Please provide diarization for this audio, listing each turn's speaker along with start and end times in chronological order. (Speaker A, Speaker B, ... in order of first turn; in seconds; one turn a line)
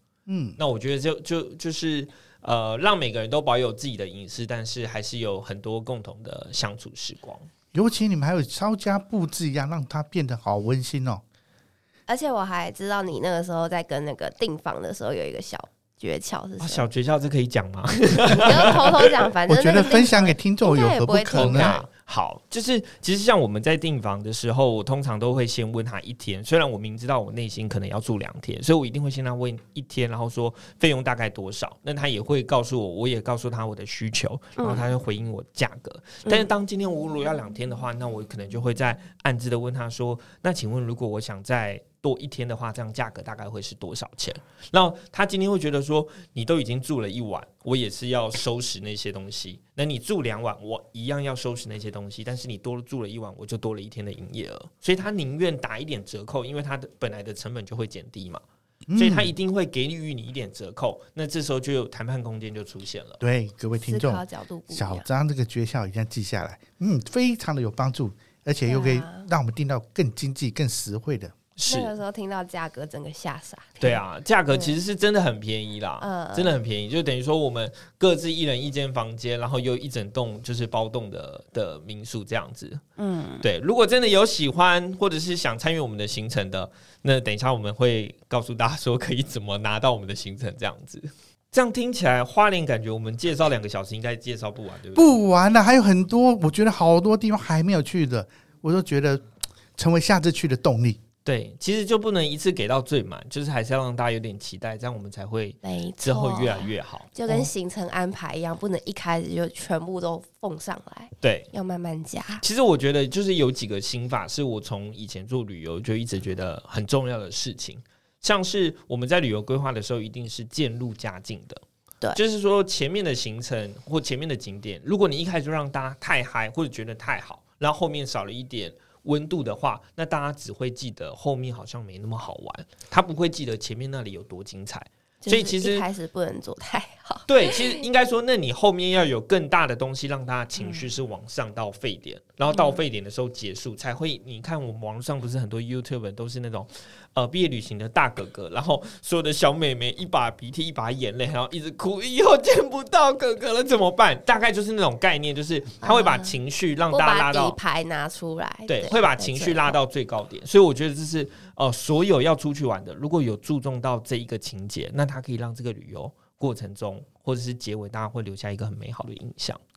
Speaker A: 0.3-0.6
Speaker B: 0.6-7.5
Speaker A: 7.7-11.2
Speaker C: 12.1-16.9
Speaker B: 16.6-19.1
Speaker C: 18.3-21.8
Speaker A: 19.5-21.8
Speaker B: 21.3-58.4
Speaker C: 34.6-34.9
Speaker A: 58.9-59.3
Speaker B: 59.0-63.2
Speaker A: 63.2-71.3
Speaker C: 63.8-65.0
Speaker C: 68.7-69.3
Speaker B: 71.6-72.0
Speaker C: 71.7-74.8
Speaker B: 73.8-82.8
Speaker C: 76.0-76.6
Speaker C: 83.0-83.4
Speaker B: 83.4-95.2
Speaker A: 94.9-99.2
Speaker A: 99.8-101.0
Speaker B: 101.2-107.4
Speaker C: 105.6-112.4
Speaker B: 111.2-111.5
Speaker B: 112.4-121.6
Speaker B: 122.1-135.9
Speaker C: 135.2-137.8
Speaker B: 137.3-157.6
Speaker C: 142.5-142.8
Speaker C: 155.8-156.4
Speaker C: 156.9-159.8
Speaker B: 158.7-169.6